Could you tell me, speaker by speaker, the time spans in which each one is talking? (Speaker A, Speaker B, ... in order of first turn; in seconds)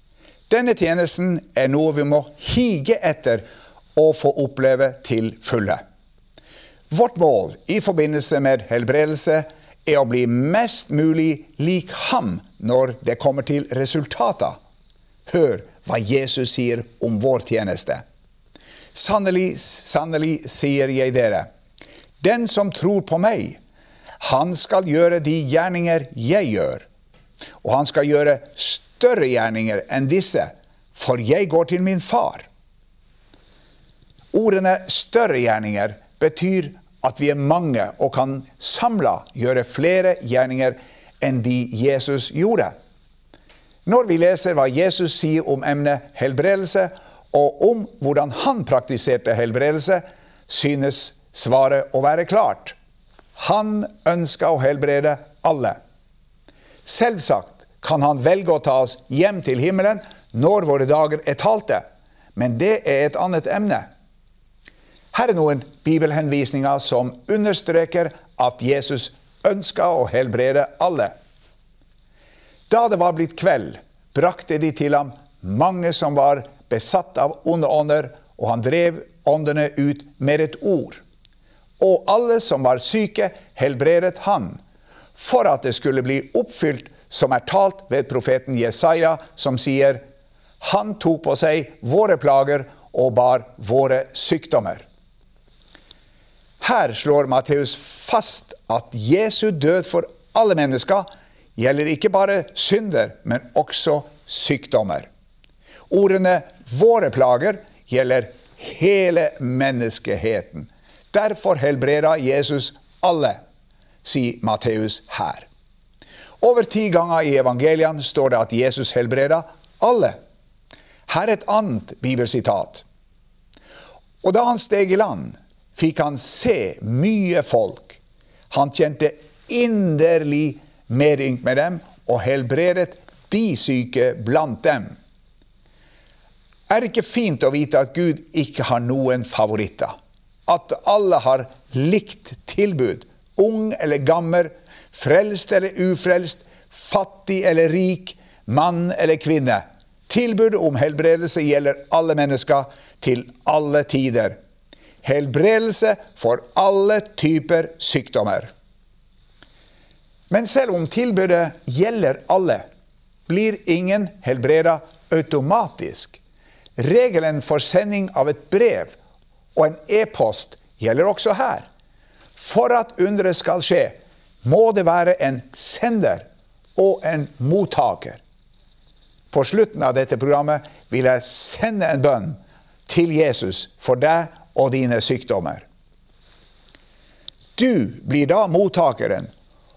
Speaker A: 0.5-5.8, 6.9-14.6, 15.3-18.0, 18.9-21.5, 22.2-23.6, 24.2-26.9, 27.6-32.5, 34.3-42.7, 43.9-52.8, 53.4-55.8, 56.9-61.9, 62.4-63.9, 65.1-71.2, 72.7-81.0, 81.8-84.6, 85.2-90.0, 90.6-94.8, 96.6-105.1, 105.9-113.4, 114.0-115.5, 116.4-120.2, 121.1-122.8, 124.2-128.0, 128.5-135.0, 136.7-139.9, 140.5-154.4, 155.0-158.5, 160.3-162.7, 163.3-166.2, 166.8-168.9, 169.6-171.7, 172.4-178.2, 179.3-185.6, 187.6-189.3